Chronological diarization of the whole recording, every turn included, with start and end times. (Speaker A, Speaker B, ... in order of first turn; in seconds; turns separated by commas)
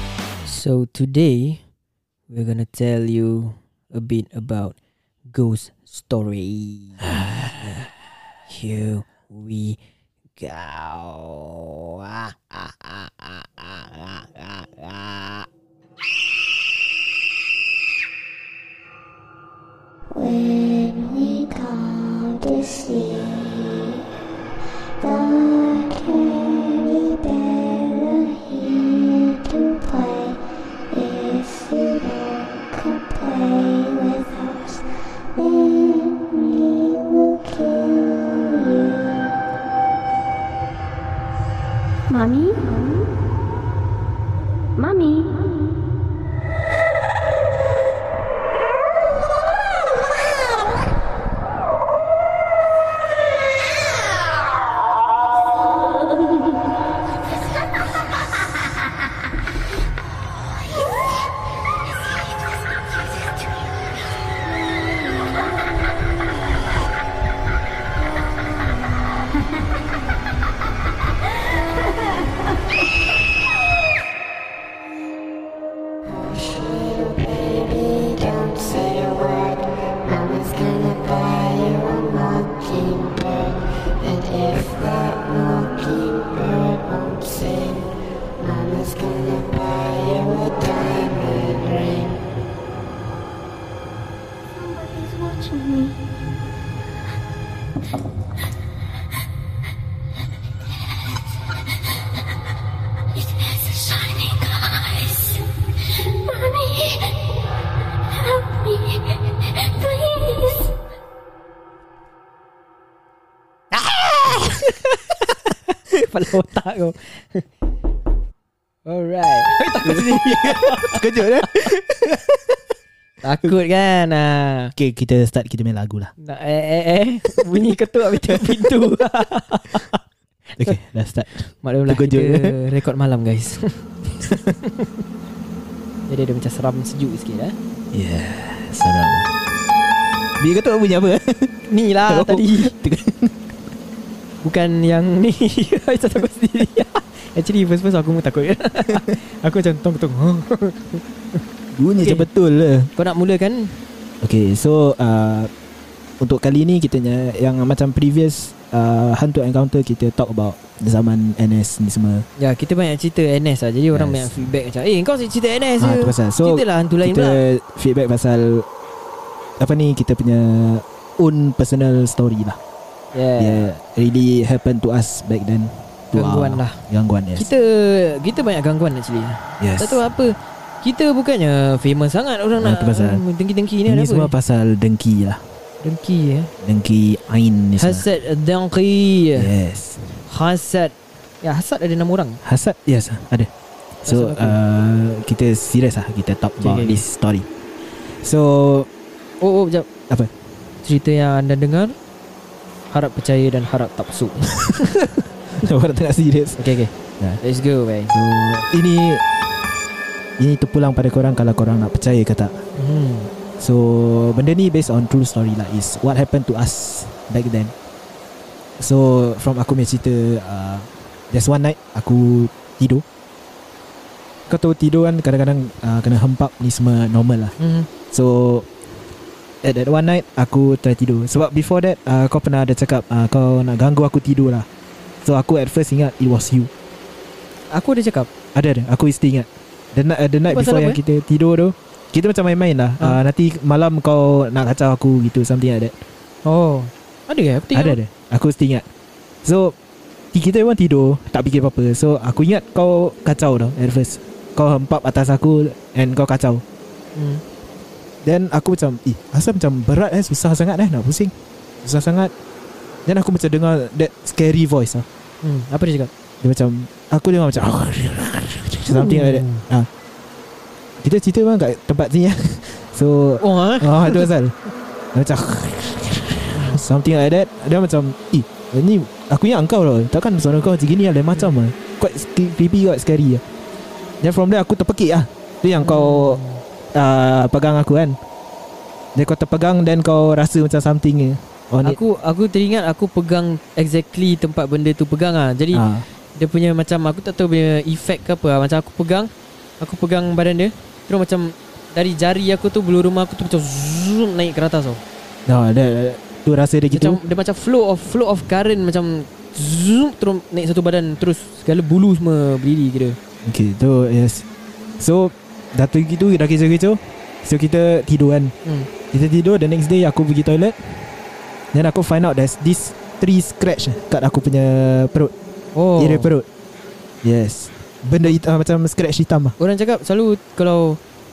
Speaker A: 0.5-1.6, Speaker A: 2.3-4.8, Speaker A: 5.3-7.2, Speaker B: 7.1-7.4, Speaker A: 8.5-9.8, Speaker A: 10.4-15.5, Speaker C: 20.1-24.1, Speaker C: 25.0-39.4, Speaker C: 42.1-43.1, Speaker C: 44.8-45.7, Speaker C: 76.1-92.2, Speaker C: 94.6-96.0, Speaker C: 103.5-105.2, Speaker C: 106.3-107.1, Speaker C: 108.5-109.0, Speaker C: 109.7-110.6, Speaker A: 113.7-117.4, Speaker A: 118.8-121.7, Speaker B: 119.8-122.6, Speaker A: 123.2-124.7, Speaker B: 124.8-126.1, Speaker A: 126.2-130.0, Speaker B: 130.6-132.6, Speaker A: 131.6-133.8, Speaker A: 134.6-134.9, Speaker A: 136.1-137.6, Speaker B: 137.9-139.3, Speaker B: 140.4-141.5, Speaker A: 141.7-142.7, Speaker B: 142.1-143.4, Speaker A: 144.4-151.0, Speaker B: 151.7-152.9, Speaker A: 152.0-152.2, Speaker A: 153.0-153.8, Speaker B: 154.2-155.5, Speaker B: 156.2-162.3, Speaker A: 162.4-167.4, Speaker B: 163.9-164.3, Speaker B: 165.8-168.7, Speaker B: 169.6-172.6, Speaker A: 173.1-173.7, Speaker B: 173.4-177.5, Speaker A: 176.1-176.8, Speaker A: 177.3-184.3, Speaker B: 179.6-180.0, Speaker B: 182.6-183.2, Speaker B: 183.8-185.4, Speaker A: 185.8-186.5, Speaker B: 186.6-188.1, Speaker A: 187.8-189.5, Speaker B: 189.3-190.2, Speaker A: 190.3-192.4, Speaker B: 192.4-193.5, Speaker B: 194.0-197.5, Speaker A: 194.1-194.6, Speaker A: 196.6-197.0, Speaker B: 198.2-198.9, Speaker A: 199.4-199.9, Speaker A: 200.8-202.0, Speaker A: 202.9-204.6, Speaker B: 204.6-206.6, Speaker A: 206.6-208.1, Speaker B: 208.1-209.2, Speaker B: 210.4-212.6, Speaker A: 212.8-213.3, Speaker B: 213.6-217.7, Speaker B: 218.8-223.0, Speaker B: 224.5-227.5, Speaker A: 227.6-227.9, Speaker B: 228.1-228.7, Speaker B: 229.6-234.7, Speaker B: 235.2-236.7, Speaker A: 237.7-238.3, Speaker B: 238.5-246.0, Speaker A: 240.5-241.0, Speaker A: 246.4-248.0, Speaker B: 247.7-248.8, Speaker B: 249.4-249.7, Speaker B: 250.3-256.6, Speaker A: 257.1-257.4, Speaker B: 258.2-262.3, Speaker B: 263.1-265.1, Speaker A: 265.4-266.1, Speaker B: 266.4-269.9, Speaker A: 268.9-269.6, Speaker B: 271.0-274.6, Speaker A: 273.4-274.3, Speaker B: 275.1-283.4, Speaker A: 276.5-276.8, Speaker B: 284.2-286.4, Speaker A: 285.8-286.6, Speaker B: 286.9-288.2, Speaker B: 289.1-292.0, Speaker A: 291.8-305.0, Speaker B: 295.7-296.1, Speaker B: 305.5-307.2, Speaker A: 306.9-313.2, Speaker B: 313.4-314.4, Speaker B: 315.0-318.5, Speaker B: 319.1-321.1, Speaker B: 321.7-325.3, Speaker A: 325.8-326.3, Speaker B: 326.0-326.5, Speaker B: 327.2-329.6, Speaker A: 329.6-331.0